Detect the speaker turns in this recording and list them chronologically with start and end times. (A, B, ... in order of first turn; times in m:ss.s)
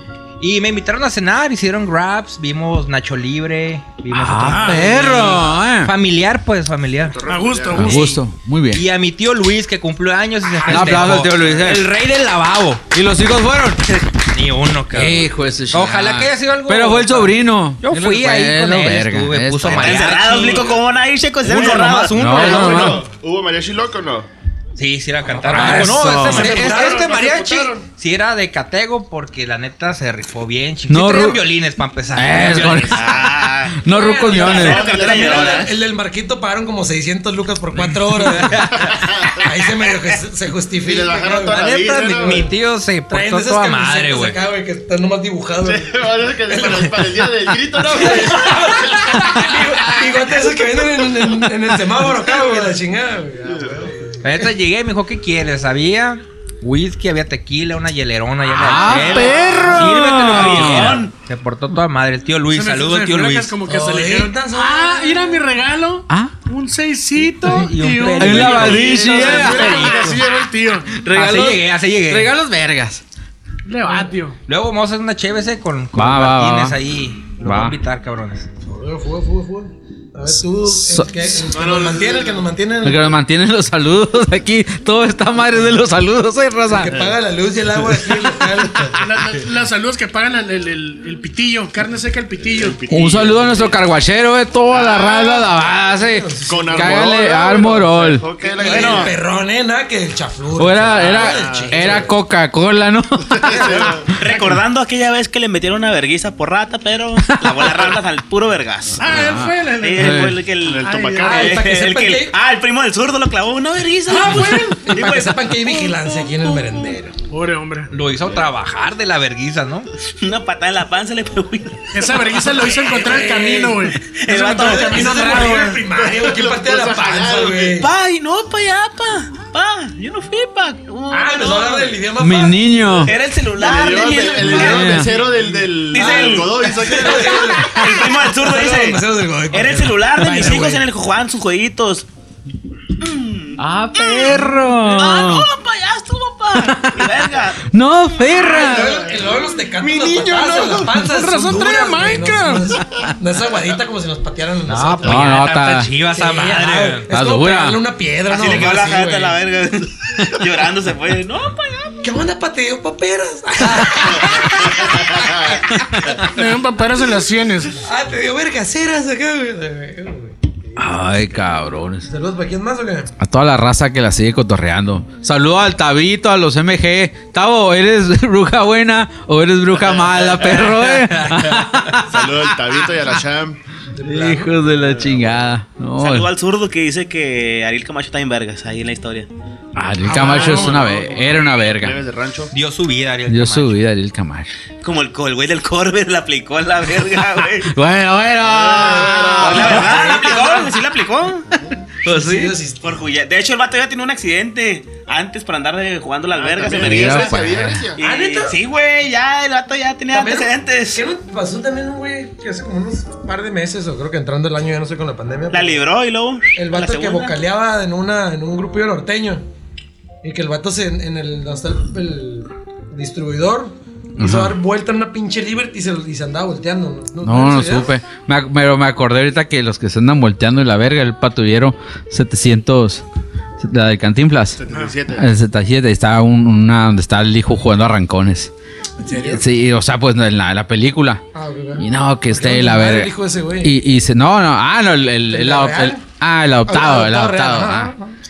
0:00.4-0:07.2 A
0:04.1-0:05.9 B
0:04.5-0:05.0 C
0:07.0-0:08.0 D
0:07.2-0:08.0 C
0:07.7-0:08.8 B
0:07.8-0:08.2 A
0:08.7-0:12.8 A
0:10.6-0:11.9 B
0:12.9-0:13.9 B
0:14.1-0:20.8 A
0:14.9-0:20.2 B
0:19.6-0:22.2 E
0:21.4-0:23.0 A
0:22.1-0:23.0 B
0:22.3-0:24.3 D
0:24.8-0:33.2 A
0:25.4-0:27.2 F
0:25.5-0:26.5 B
0:25.5-0:27.8 D
0:30.9-0:31.4 B
0:32.1-0:33.1 B
0:33.0-0:33.7 E
0:33.7-0:34.8 B
0:33.8-0:42.5 F
0:34.3-0:35.7 D
0:34.4-0:35.8 E
0:38.7-0:39.5 D
0:40.8-0:42.5 D
0:41.5-0:44.4 A
0:43.1-0:54.5 F
0:45.6-0:51.5 D
0:52.1-0:52.7 D
0:53.5-0:53.9 D
0:54.2-1:03.5 A
0:58.5-1:01.0 B
0:59.1-1:01.1 E
1:02.5-1:11.0 C
1:03.7-1:05.2 F
1:07.5-1:10.2 A
1:08.2-1:10.1 B
1:08.3-1:10.2 D
1:10.9-1:13.0 B
1:11.1-1:12.3 A
1:13.6-1:14.4 C
1:14.4-1:18.5 A
1:15.9-1:16.8 B
1:17.4-1:17.8 B
1:18.6-1:23.2 F
1:20.7-1:21.2 B
1:21.5-1:22.5 D
1:22.8-1:26.9 B
1:26.7-1:29.0 F
1:26.8-1:27.2 D
1:29.0-1:32.8 C
1:32.4-1:33.8 D
1:32.9-1:38.3 B
1:34.7-1:35.7 D
1:36.0-1:37.1 F
1:36.4-1:39.2 D
1:38.5-1:42.1 F
1:38.6-1:39.1 E
1:40.6-1:44.1 B
1:40.9-1:42.1 D
1:43.3-1:44.1 D
1:43.5-1:43.9 F
1:44.1-1:55.9 E
1:47.3-1:47.6 B
1:49.0-1:50.3 C
1:49.0-1:50.4 B
1:50.5-1:51.6 D
1:50.8-1:51.5 C
1:51.2-1:52.4 F
1:54.1-1:55.0 C
1:54.7-1:57.1 F
1:57.3-1:57.9 C
1:57.9-1:59.9 A
2:00.1-2:05.6 E
2:01.9-2:04.0 C
2:02.9-2:07.9 F
2:04.6-2:07.8 D
2:07.8-2:12.0 E
2:11.1-2:13.1 F
2:12.2-2:13.1 B
2:13.0-2:15.3 E
2:13.6-2:17.7 D
2:13.6-2:20.8 F
2:14.4-2:15.1 B
2:15.9-2:22.0 E
2:23.0-2:27.6 E
2:23.6-2:25.5 B
2:26.9-2:27.3 D
2:27.6-2:29.0 B
2:28.3-2:29.5 D
2:28.4-2:35.4 F
2:29.8-2:32.8 C
2:34.7-2:37.1 A
2:35.0-2:35.9 B
2:36.1-2:39.4 F
2:37.1-2:37.8 B
2:38.3-2:41.9 E
2:42.0-2:45.7 F
2:43.8-2:44.5 B
2:44.7-2:45.6 D
2:45.8-2:46.2 B
2:46.2-2:47.8 C
2:47.7-2:50.3 F
2:50.8-2:52.0 B
2:52.1-2:53.1 F
2:53.2-3:02.5 B
3:00.1-3:00.8 D
3:00.4-3:01.6 A
3:01.3-3:03.6 D
3:03.9-3:04.6 F
3:04.0-3:06.3 B
3:04.8-3:05.4 D
3:06.0-3:09.3 E
3:09.7-3:12.0 B
3:10.0-3:10.9 C
3:10.1-3:12.5 D
3:12.5-3:13.8 A
3:13.3-3:14.5 B
3:14.8-3:17.7 E
3:17.6-3:19.9 B
3:18.4-3:20.3 D
3:18.9-3:20.7 F
3:19.1-3:21.5 E
3:22.0-3:23.0 F
3:22.0-3:22.5 B
3:22.8-3:27.4 E
3:26.3-3:28.0 D
3:26.7-3:27.9 B
3:28.0-3:31.0 E
3:28.0-3:28.6 F
3:30.1-3:35.8 F
3:35.5-3:37.4 E
3:36.5-3:39.4 F
3:40.2-3:47.9 F
3:44.2-3:44.5 B
3:47.2-3:53.0 B
3:53.6-3:54.6 B
3:54.6-3:55.3 D
3:54.7-3:54.9 C
3:55.1-3:58.5 B
3:59.0-3:59.5 F
3:59.3-4:01.2 B
4:01.3-4:03.8 F
4:01.8-4:07.9 B
4:05.3-4:06.0 F
4:06.7-4:08.1 F